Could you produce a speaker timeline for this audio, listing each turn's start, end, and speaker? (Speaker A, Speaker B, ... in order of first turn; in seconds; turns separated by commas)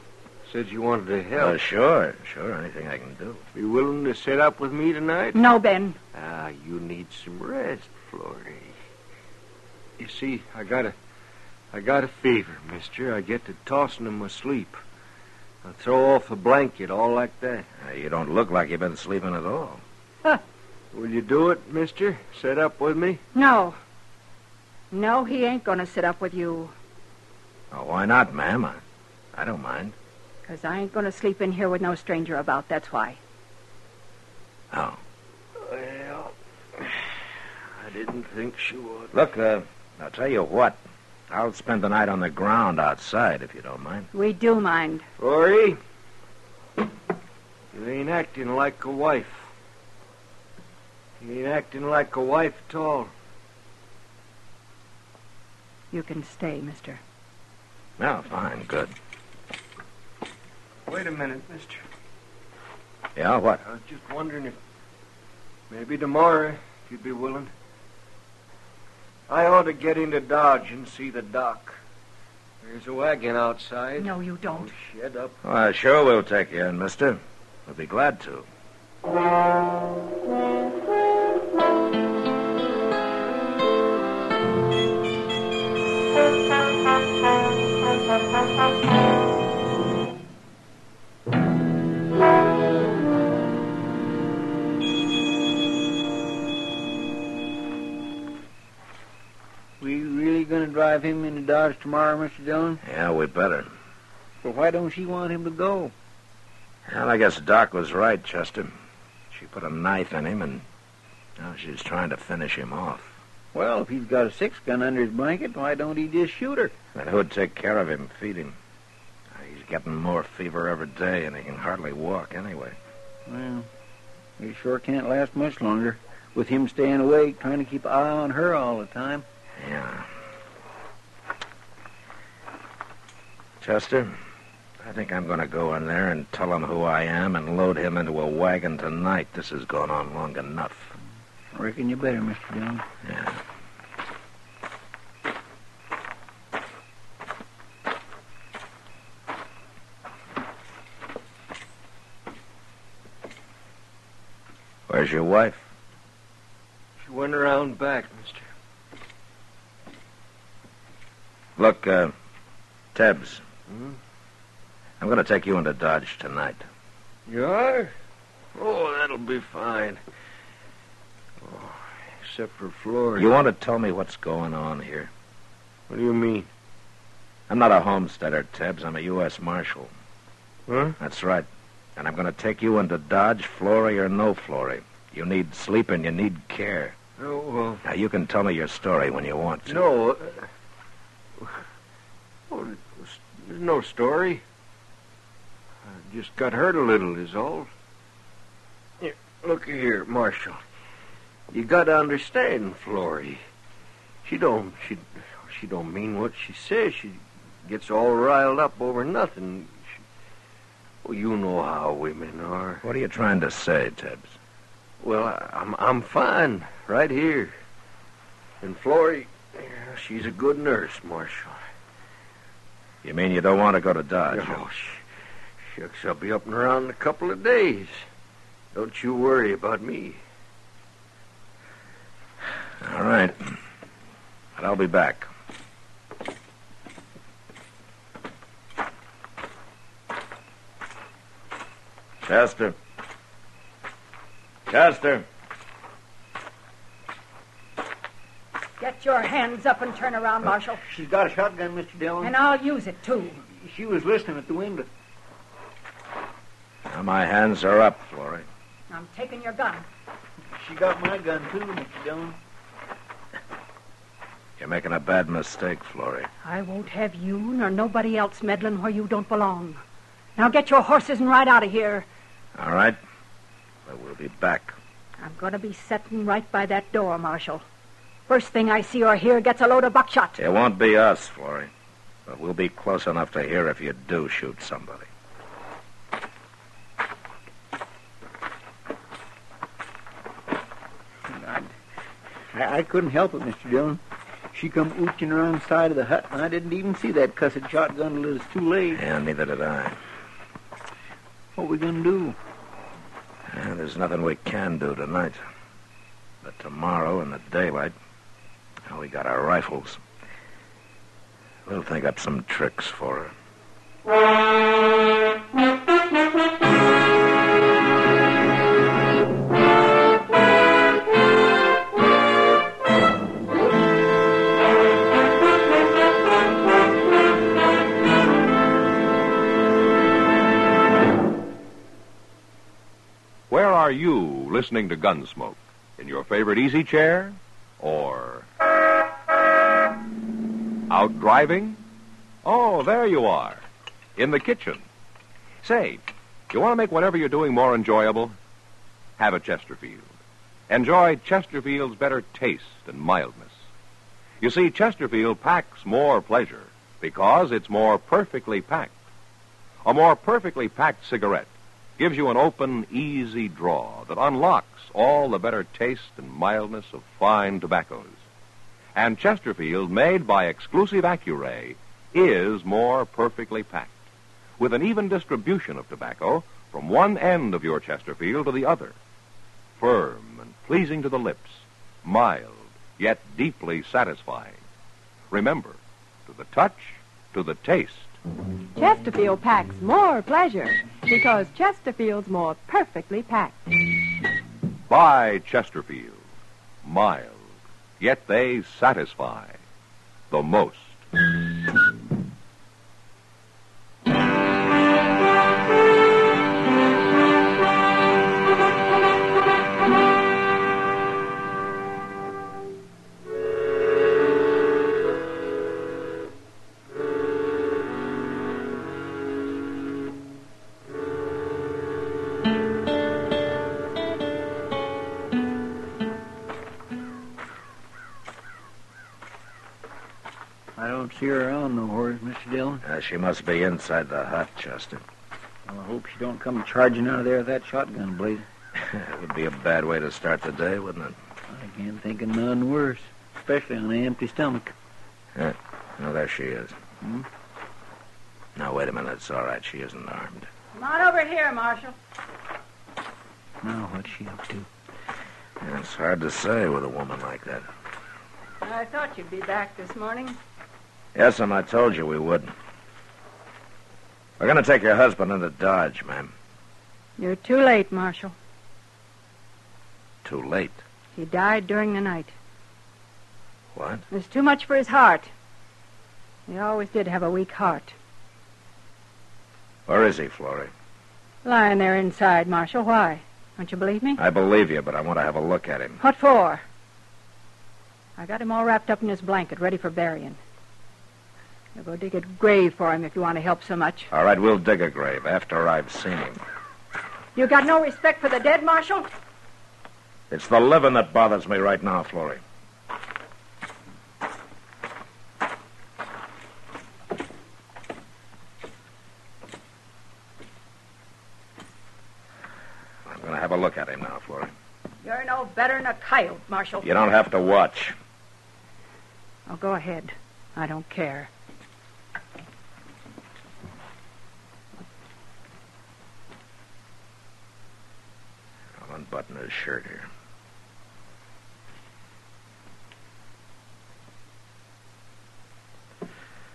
Speaker A: 0.5-1.6, Speaker B: 1.4-3.4, Speaker A: 3.5-5.4, Speaker C: 5.3-6.0, Speaker A: 6.1-8.7, Speaker A: 10.0-10.9, Speaker A: 11.7-14.8, Speaker A: 15.6-17.7, Speaker B: 17.8-19.8, Speaker A: 20.9-23.2, Speaker C: 23.3-23.8, Speaker C: 24.9-26.7, Speaker B: 27.7-28.8, Speaker B: 29.3-29.9, Speaker C: 30.5-33.2, Speaker B: 34.7-35.0, Speaker A: 35.6-37.0, Speaker A: 37.8-39.1, Speaker B: 39.1-44.1, Speaker C: 44.1-45.0, Speaker A: 45.2-45.8, Speaker A: 47.7-49.5, Speaker A: 51.2-53.1, Speaker C: 55.9-57.0, Speaker B: 58.0-58.9, Speaker A: 60.9-61.8, Speaker B: 63.1-63.6, Speaker A: 63.6-64.6, Speaker A: 65.7-67.5, Speaker A: 69.3-71.8, Speaker A: 72.6-75.4, Speaker C: 74.0-74.7, Speaker B: 75.4-78.5, Speaker D: 99.8-102.8, Speaker B: 102.8-103.7, Speaker D: 104.4-105.9, Speaker B: 106.8-108.7, Speaker B: 109.3-110.6, Speaker B: 111.4-113.2, Speaker D: 113.5-116.7, Speaker B: 116.9-118.5, Speaker B: 119.3-122.8, Speaker D: 123.3-123.7, Speaker D: 124.4-129.2, Speaker B: 129.6-130.1, Speaker B: 133.6-134.2, Speaker B: 134.8-140.9, Speaker D: 141.5-142.8, Speaker B: 143.0-143.4, Speaker B: 154.9-155.7, Speaker A: 157.0-158.5, Speaker B: 161.6-162.1, Speaker B: 162.9-163.4, Speaker A: 163.7-164.0, Speaker B: 165.0-166.7, Speaker A: 167.3-167.9, Speaker A: 168.5-170.0, Speaker A: 171.4-173.3, Speaker B: 173.2-175.1, Speaker A: 175.9-176.5, Speaker B: 177.5-179.9, Speaker A: 180.7-181.0, Speaker B: 181.0-186.9, Speaker A: 187.2-187.8, Speaker B: 187.8-189.8, Speaker A: 189.7-190.5, Speaker A: 192.5-194.4, Speaker A: 195.9-197.7, Speaker A: 199.0-200.6, Speaker A: 201.5-203.4, Speaker A: 204.2-209.9, Speaker A: 211.0-212.8, Speaker B: 212.8-214.3, Speaker A: 215.0-217.5, Speaker A: 218.6-221.6, Speaker B: 223.0-224.6, Speaker A: 224.3-225.1, Speaker A: 225.7-228.0, Speaker A: 228.7-230.2, Speaker B: 232.8-233.6, Speaker B: 234.6-235.3, Speaker B: 242.2-242.8, Speaker B: 244.7-245.2, Speaker C: 248.8-250.8, Speaker D: 250.8-252.3, Speaker C: 252.2-253.4, Speaker D: 253.4-254.9, Speaker B: 256.9-258.5, Speaker C: 258.9-259.9, Speaker D: 260.6-262.4, Speaker B: 264.6-266.3, Speaker C: 266.4-269.8, Speaker C: 270.4-272.1, Speaker B: 272.6-273.0, Speaker B: 273.9-274.8, Speaker C: 275.2-277.6, Speaker C: 278.3-280.4, Speaker B: 280.4-281.7, Speaker B: 282.2-285.1, Speaker D: 291.3-291.7, Speaker D: 292.5-294.0, Speaker D: 294.5-299.0, Speaker B: 298.9-300.0, Speaker D: 301.5-302.4, Speaker B: 303.5-305.4, Speaker B: 306.4-307.9, Speaker B: 308.9-310.0, Speaker B: 311.6-313.3, Speaker E: 333.5-338.4, Speaker E: 340.9-341.8, Speaker E: 342.4-343.6, Speaker E: 344.2-344.8, Speaker E: 345.6-348.3, Speaker E: 349.2-350.1, Speaker E: 350.7-353.6, Speaker E: 354.4-358.9, Speaker E: 359.8-368.2, Speaker E: 368.9-374.0, Speaker E: 374.6-378.9, Speaker E: 379.8-384.6, Speaker E: 385.3-388.2, Speaker F: 388.8-393.6, Speaker E: 394.9-396.2, Speaker E: 396.8-397.4, Speaker E: 398.0-399.6, Speaker E: 400.3-401.0, Speaker D: 430.8-432.8, Speaker B: 432.8-435.0, Speaker D: 435.6-438.5, Speaker B: 438.8-441.1, Speaker D: 441.5-444.7, Speaker B: 445.3-446.8, Speaker B: 448.6-450.5, Speaker C: 450.7-451.9, Speaker D: 453.6-454.7, Speaker B: 455.6-457.6, Speaker C: 458.6-460.4, Speaker B: 461.1-462.5, Speaker B: 464.4-466.3, Speaker C: 467.2-468.3, Speaker B: 470.2-470.8, Speaker C: 471.1-472.3, Speaker B: 473.7-474.0, Speaker C: 474.1-475.3, Speaker C: 476.5-477.9, Speaker B: 479.9-480.7, Speaker C: 481.4-484.2, Speaker B: 484.2-486.0, Speaker C: 486.0-486.6, Speaker C: 488.2-490.4, Speaker C: 491.8-494.1, Speaker B: 494.1-496.4, Speaker C: 497.3-499.1, Speaker B: 500.3-502.4, Speaker B: 513.0-514.5, Speaker C: 515.0-516.9, Speaker B: 516.8-518.0, Speaker C: 519.5-521.3, Speaker B: 528.8-530.1